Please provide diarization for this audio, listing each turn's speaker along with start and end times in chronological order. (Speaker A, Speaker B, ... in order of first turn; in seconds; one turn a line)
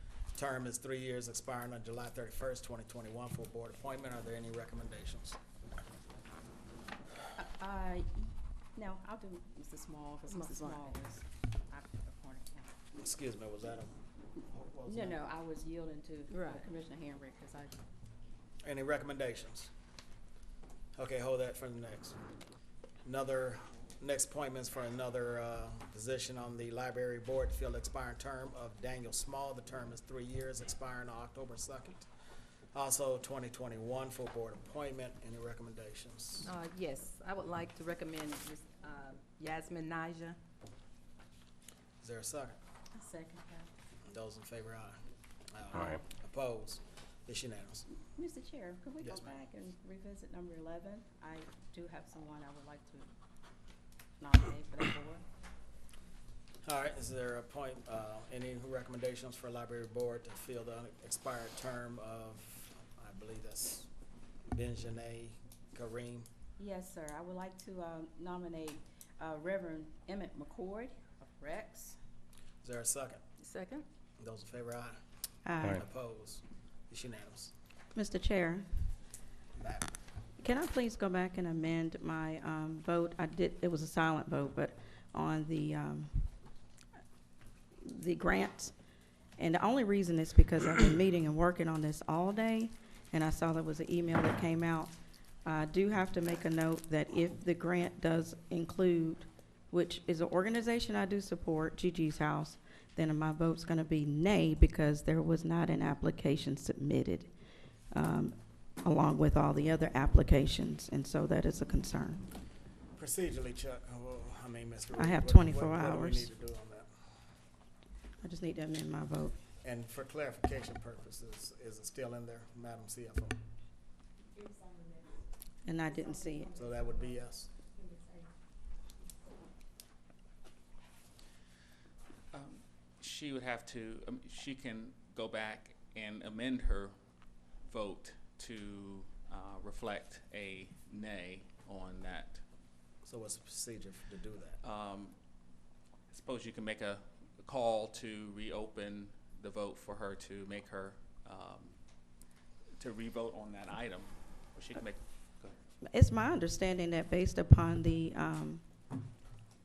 Speaker A: 0.3-5.4
Speaker B: 7.4-12.7
Speaker C: 10.3-11.0
Speaker A: 13.0-13.9
Speaker A: 14.5-15.2
Speaker B: 14.9-17.8
Speaker C: 16.3-16.6
Speaker A: 18.6-19.7
Speaker A: 20.9-22.2
Speaker A: 23.0-32.0
Speaker A: 32.7-36.5
Speaker C: 36.4-40.4
Speaker A: 42.0-42.6
Speaker B: 42.9-43.7
Speaker A: 44.0-45.0
Speaker A: 45.5-47.9
Speaker B: 48.1-53.1
Speaker A: 49.0-49.3
Speaker B: 54.2-55.2
Speaker A: 56.6-63.9
Speaker A: 64.5-66.3
Speaker B: 66.6-72.0
Speaker A: 72.6-73.2
Speaker C: 73.4-73.8
Speaker A: 74.2-75.0
Speaker D: 75.4-75.8
Speaker A: 75.6-77.5
Speaker D: 77.9-78.7
Speaker A: 79.6-79.9
Speaker D: 80.4-86.3
Speaker D: 87.8-88.7
Speaker D: 89.4-94.9
Speaker D: 95.4-107.3
Speaker D: 107.9-112.2
Speaker A: 113.0-116.9
Speaker D: 115.0-116.3
Speaker D: 118.2-119.4
Speaker A: 119.6-123.4
Speaker D: 125.6-126.6
Speaker A: 126.5-127.5
Speaker E: 132.3-136.9
Speaker E: 137.6-142.4
Speaker A: 143.0-144.6
Speaker E: 144.6-145.1
Speaker E: 146.1-151.7
Speaker E: 152.8-155.6
Speaker D: 155.8-158.6